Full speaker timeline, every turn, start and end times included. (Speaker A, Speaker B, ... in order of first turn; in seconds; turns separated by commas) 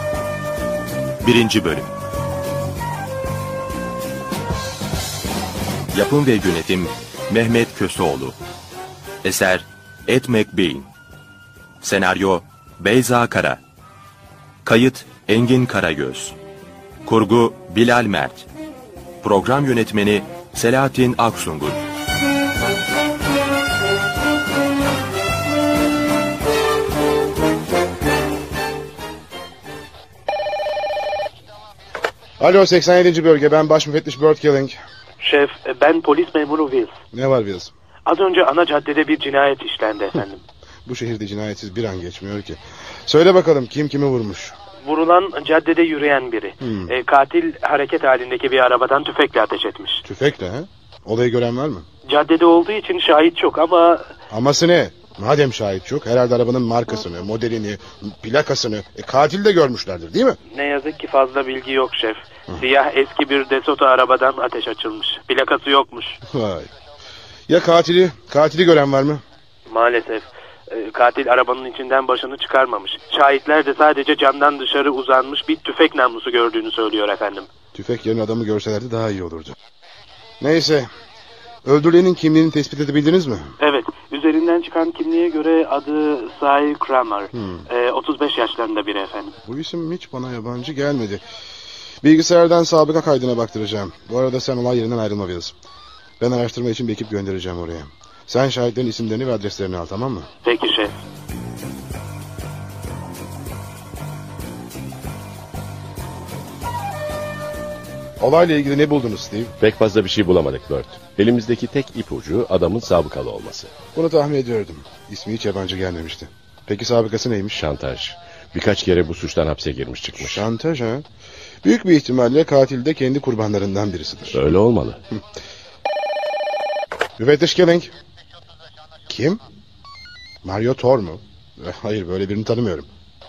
Speaker A: 1.2-1.9, Speaker A: 5.9-8.4, Speaker A: 9.2-10.9, Speaker A: 11.8-13.6, Speaker A: 14.6-16.4, Speaker A: 17.0-18.5, Speaker A: 19.2-21.8, Speaker B: 32.4-34.8, Speaker C: 35.2-37.0, Speaker B: 37.1-37.7, Speaker C: 38.1-40.4, Speaker B: 40.9-44.5, Speaker C: 44.8-50.0, Speaker B: 46.6-46.9, Speaker B: 50.0-51.9, Speaker C: 52.1-54.1, Speaker B: 54.3-60.4, Speaker C: 60.5-66.2, Speaker B: 66.3-66.7, Speaker B: 67.5-69.2, Speaker C: 69.7-77.5, Speaker B: 77.7-79.6, Speaker B: 80.4-80.9, Speaker B: 81.7-83.5, Speaker C: 83.6-89.3, Speaker B: 87.3-87.6, Speaker B: 89.5-91.2, Speaker B: 92.0-95.5, Speaker B: 96.2-100.3, Speaker C: 100.4-100.9, Speaker B: 108.2-109.5, Speaker D: 109.6-113.7, Speaker B: 114.0-117.6, Speaker D: 117.6-120.4, Speaker B: 120.2-121.0, Speaker B: 121.6-124.4, Speaker D: 124.3-125.0, Speaker B: 127.2-127.9, Speaker B: 129.1-129.4, Speaker B: 130.4-132.9